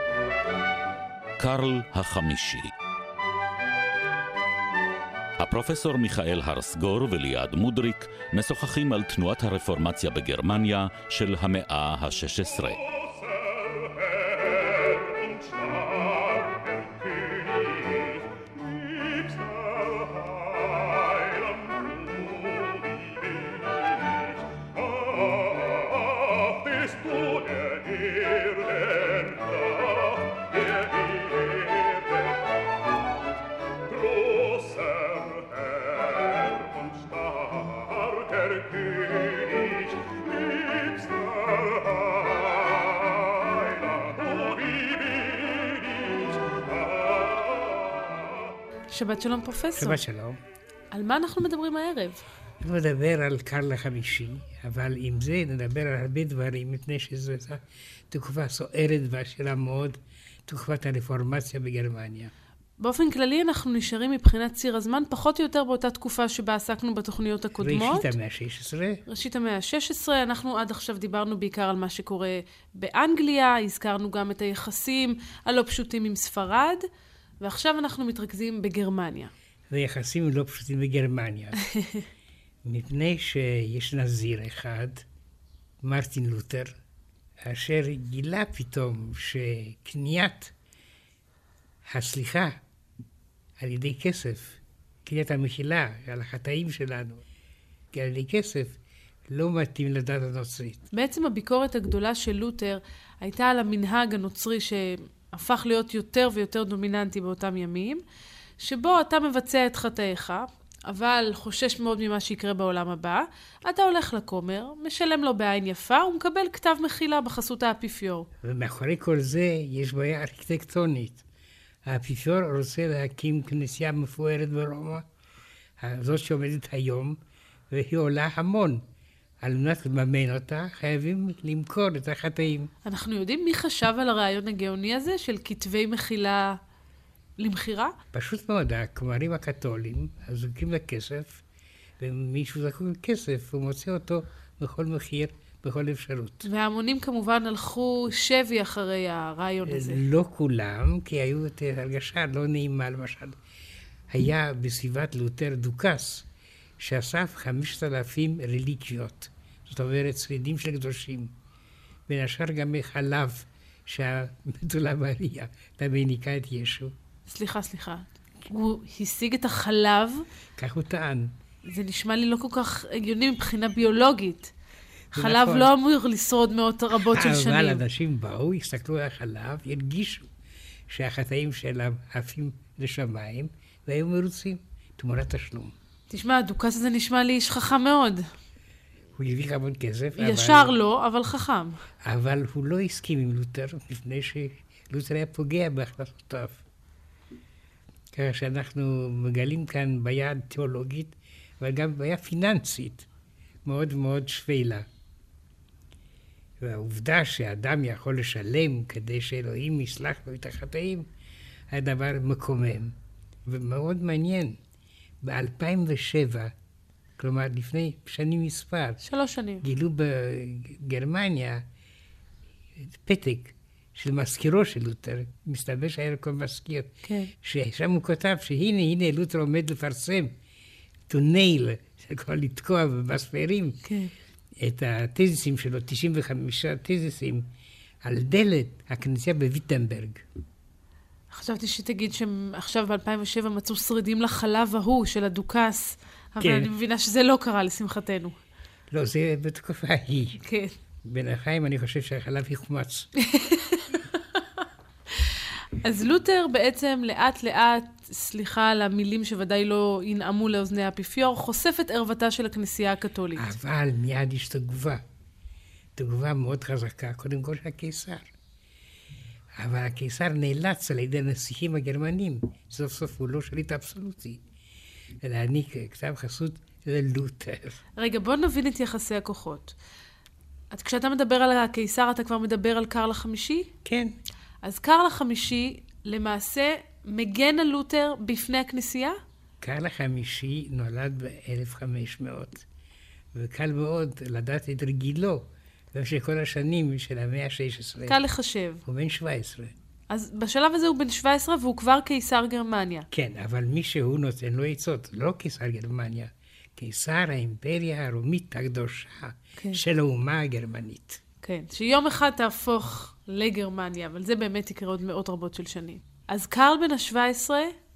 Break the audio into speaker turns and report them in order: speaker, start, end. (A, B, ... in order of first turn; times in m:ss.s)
0:01.4-0:02.7 A
0:05.4-0:12.8 A
0:48.9-0:50.0 B
0:49.8-0:50.4 C
0:50.9-0:52.2 B
0:52.6-1:02.3 C
1:02.8-1:08.1 B
1:07.6-1:09.0 C
1:09.1-1:16.9 B
1:17.4-1:19.3 B
1:19.7-1:21.6 C
1:21.6-1:22.0 B
1:22.6-1:25.1 C
1:25.8-1:26.8 C
1:27.4-1:30.5 C
1:31.8-1:32.6 C
1:33.6-1:37.2 C
1:37.9-1:38.8 C
1:39.3-1:40.9 C
1:40.9-1:48.0 B
1:48.6-1:58.3 B
1:58.4-2:01.2 C
2:01.8-2:05.0 C
2:05.8-2:08.8 C
2:09.4-2:12.7 C
2:12.8-2:16.6 B
2:17.4-2:18.0 B
2:18.1-2:21.4 C
2:22.0-2:26.5 C
2:26.4-2:30.0 B
2:29.7-2:33.4 C
2:34.1-2:36.3 C
2:36.8-2:41.3 C
2:42.1-2:46.9 C
2:47.3-2:50.3 B
2:50.6-2:51.3 C
2:51.7-2:54.5 B
2:55.1-2:55.7 C
2:55.1-2:57.8 B
2:57.0-3:00.3 C
3:00.9-3:05.8 C
3:06.1-3:08.3 B
3:09.2-3:10.8 C
3:10.2-3:11.8 B
3:12.0-3:16.6 C
3:18.1-3:23.1 C
3:23.6-3:24.9 C
3:26.6-3:31.1 C
3:31.7-3:34.6 C
3:35.2-3:36.5 C
3:37.2-3:39.0 C
3:39.0-3:39.6 B
3:39.6-3:41.7 C
3:42.8-3:50.4 C
3:47.0-3:47.3 B
3:51.1-3:53.8 C
3:53.8-3:54.1 B
3:54.6-3:57.5 C
3:58.0-4:00.2 C
4:01.3-4:08.4 B
4:06.4-4:06.7 C
4:08.9-4:10.4 C
4:10.4-4:10.8 B
4:11.0-4:13.1 C
4:13.2-4:14.4 B
4:15.2-4:23.5 B
4:23.4-4:25.0 C
4:26.0-4:28.3 C
4:29.6-4:34.4 C
4:35.2-4:37.8 C
4:38.0-4:39.8 B
4:40.7-4:43.7 B
4:43.8-4:44.2 C
4:44.6-4:49.2 B
4:49.6-4:52.6 C
4:53.3-4:58.2 C
4:58.1-4:58.8 B
4:58.8-4:59.7 C
5:00.1-5:03.1 B
5:03.1-5:11.2 C
5:11.4-5:17.8 B